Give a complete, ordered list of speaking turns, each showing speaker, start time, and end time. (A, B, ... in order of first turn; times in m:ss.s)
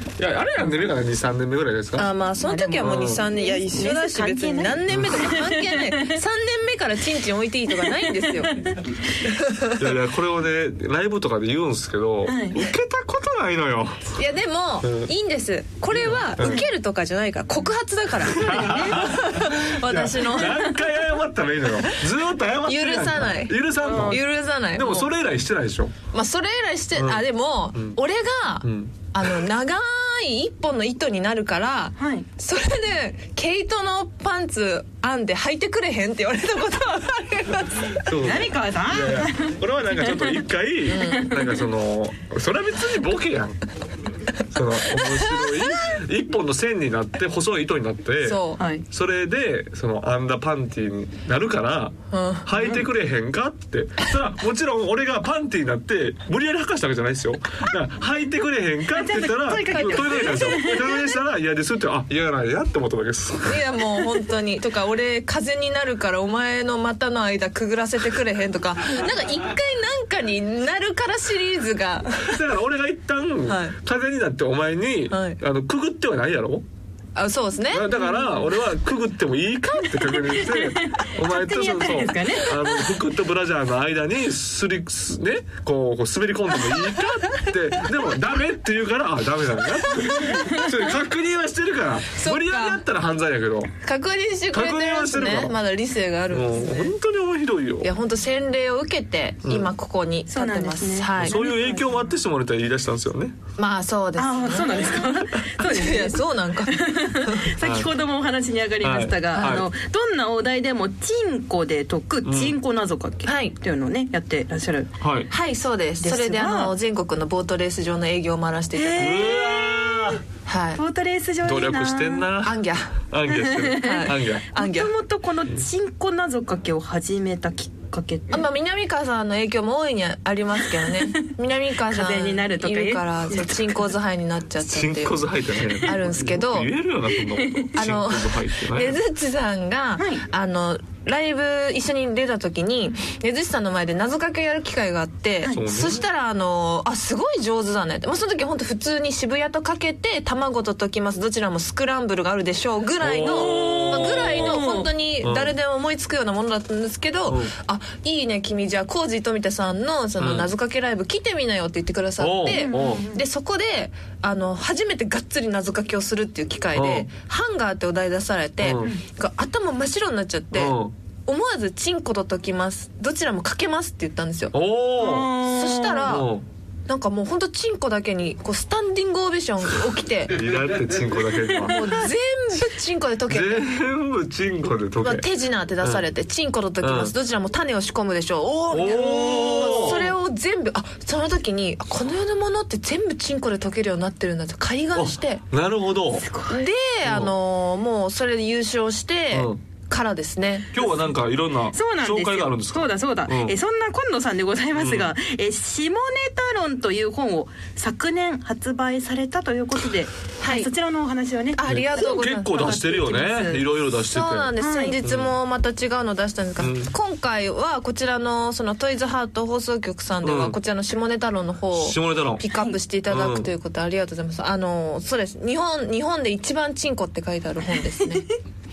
0:00.2-0:02.1 A
0:02.0-0:08.7 B
0:02.4-0:06.2 C
0:02.8-0:03.2 A
0:04.9-0:05.3 A
0:07.7-0:09.0 C
0:09.2-0:09.8 B
0:09.8-0:14.1 A
0:12.2-0:12.6 C
0:14.1-0:20.7 B
0:14.8-0:15.1 A
0:15.9-0:16.6 A
0:18.3-0:25.9 A
0:18.6-0:19.0 C
0:22.6-0:25.1 B
0:23.8-0:24.2 C
0:26.1-0:38.0 B
0:26.9-0:27.2 A
0:28.6-0:29.4 A
0:32.0-0:32.2 C
0:37.9-0:43.6 A
0:38.2-0:40.4 C
0:40.9-0:41.5 B
0:41.0-0:41.5 C
0:44.5-1:03.7 A
0:44.9-0:45.8 B
0:48.2-0:48.6 B
0:48.6-0:48.8 C
0:52.1-0:52.5 B
0:52.5-0:52.8 C
0:58.9-1:01.1 C
0:59.7-1:00.7 B
1:03.4-1:12.4 B
1:12.2-1:16.6 A
1:13.5-1:13.8 B
1:15.1-1:15.4 B
1:17.2-1:18.0 B
1:17.7-1:33.7 A
1:17.9-1:18.4 C
1:20.0-1:22.9 C
1:30.0-1:30.6 B
1:30.2-1:30.8 C
1:32.1-1:32.8 B
1:33.8-1:36.9 B
1:34.5-1:35.6 A
1:36.3-1:37.9 A
1:37.8-1:41.4 B
1:39.4-1:39.7 A
1:40.3-1:41.9 C
1:41.2-1:43.4 A
1:43.6-1:47.5 B
1:44.2-1:54.9 C
1:47.6-1:47.9 A
1:48.8-1:49.7 A
1:52.2-1:52.6 A
1:53.2-1:53.5 B
1:55.0-1:55.3 A
1:55.3-1:59.3 B
1:56.0-1:56.7 C
1:58.7-2:00.2 C
1:59.0-2:00.2 A
2:00.4-2:00.8 B
2:00.8-2:02.3 C
2:01.4-2:04.4 A
2:02.4-2:02.9 B
2:03.3-2:08.4 C
2:03.8-2:04.9 B
2:08.3-2:15.2 B
2:10.8-2:11.2 C
2:11.9-2:13.9 C
2:14.6-2:19.0 A
2:15.8-2:16.7 B
2:17.2-2:17.7 C
2:17.7-2:54.5 B
2:20.0-2:20.2 C
2:25.5-2:26.0 A
2:33.0-2:35.5 A
2:33.2-2:34.9 C
2:37.3-2:37.5 A
2:40.2-2:40.5 A
2:42.2-2:43.1 A
2:42.5-2:43.2 C
2:46.7-2:47.1 A
2:48.6-2:48.9 A
2:50.5-2:50.9 A
2:54.5-2:55.4 A
2:55.0-2:56.1 C
2:55.4-2:56.3 B
2:56.0-2:56.4 A
2:56.9-3:00.4 B
3:00.3-3:01.8 A
3:01.7-3:03.6 B
3:03.3-3:05.3 A
3:05.0-3:15.4 B
3:06.8-3:07.1 A
3:08.7-3:10.1 A
3:09.1-3:10.1 C
3:14.9-3:16.3 A
3:16.1-3:16.6 C
3:16.5-3:20.7 B
3:17.0-3:17.3 A
3:19.3-3:19.6 A
3:20.7-3:23.6 A
3:21.7-3:33.7 C
3:24.7-3:25.1 A
3:30.4-3:30.7 B
3:31.5-3:32.9 B
3:31.6-3:35.3 A
3:34.0-3:48.2 B
3:34.6-3:35.0 C
3:36.6-3:36.9 A
3:40.2-3:40.6 A
3:41.7-3:42.4 A
3:43.1-3:43.5 A
3:47.9-3:48.2 C